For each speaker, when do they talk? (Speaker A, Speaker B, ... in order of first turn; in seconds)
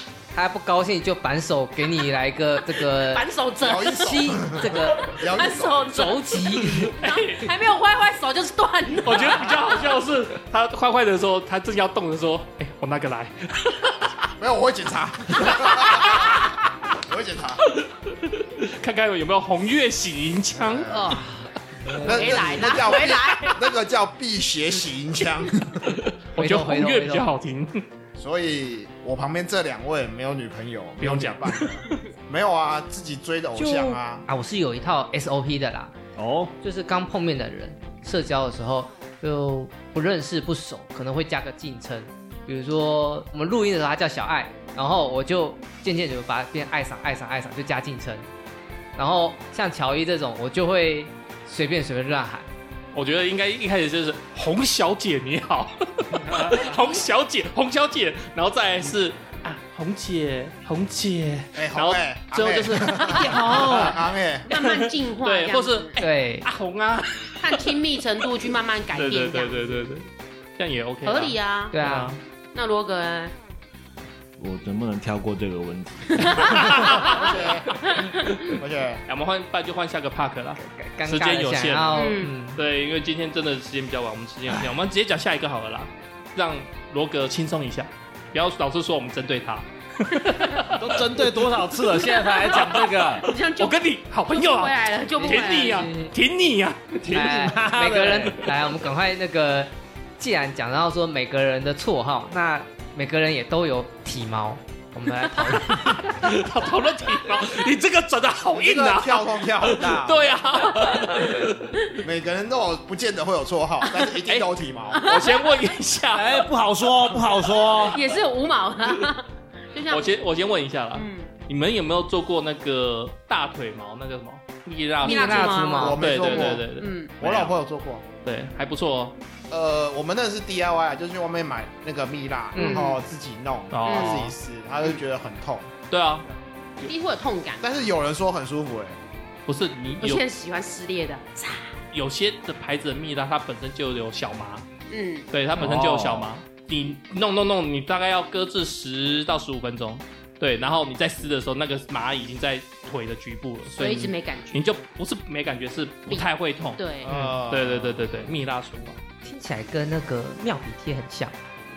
Speaker A: 0.3-3.3, 3.9-5.1, 5.9-7.0, 26.4-27.3, 33.6-36.0, 36.6-48.3, 49.0-52.5, 66.0-66.5, 71.7-72.2, 80.6-82.6, 97.1-106.0, 125.0-126.0, 132.6-132.8, 159.2-161.3
Speaker B: 2.9-4.3, 5.0-9.8, 20.9-23.6, 63.0-66.0, 67.4-69.9, 71.0-71.8, 72.5-73.3, 76.2-77.2, 77.9-78.5, 82.0-82.3, 90.2-90.6, 92.2-93.8, 94.3-96.0, 115.0-115.4, 117.8-120.2, 120.9-121.3, 125.0-127.1, 132.6-133.0, 133.9-134.2, 136.8-137.8, 140.0-141.8, 144.9-145.3, 153.8-154.6, 156.1-157.1
Speaker C: 3.6-5.8, 14.4-17.7, 20.6-21.2, 22.0-26.0, 28.1-34.3, 61.5-64.5, 76.7-77.8, 78.4-79.0, 108.5-110.3, 112.0-115.2, 125.8-126.7, 127.2-128.1, 129.5-135.7, 137.6-139.0, 157.0-158.1
Speaker D: 6.6-7.5, 9.0-14.0, 17.7-21.0, 25.9-27.8, 31.0-31.8, 52.9-64.0, 64.5-67.8, 69.0-70.0, 70.6-72.2, 76.4-77.2, 79.1-91.0, 92.5-97.0, 105.3-111.8, 114.1-116.5, 119.9-127.5, 128.2-129.2, 133.7-134.3, 135.9-136.3, 139.5-140.2, 141.9-144.7, 145.3-159.0
Speaker E: 36.2-36.5, 74.4-76.7, 90.6-93.3, 97.0-98.6, 116.1-118.0, 145.5-146.3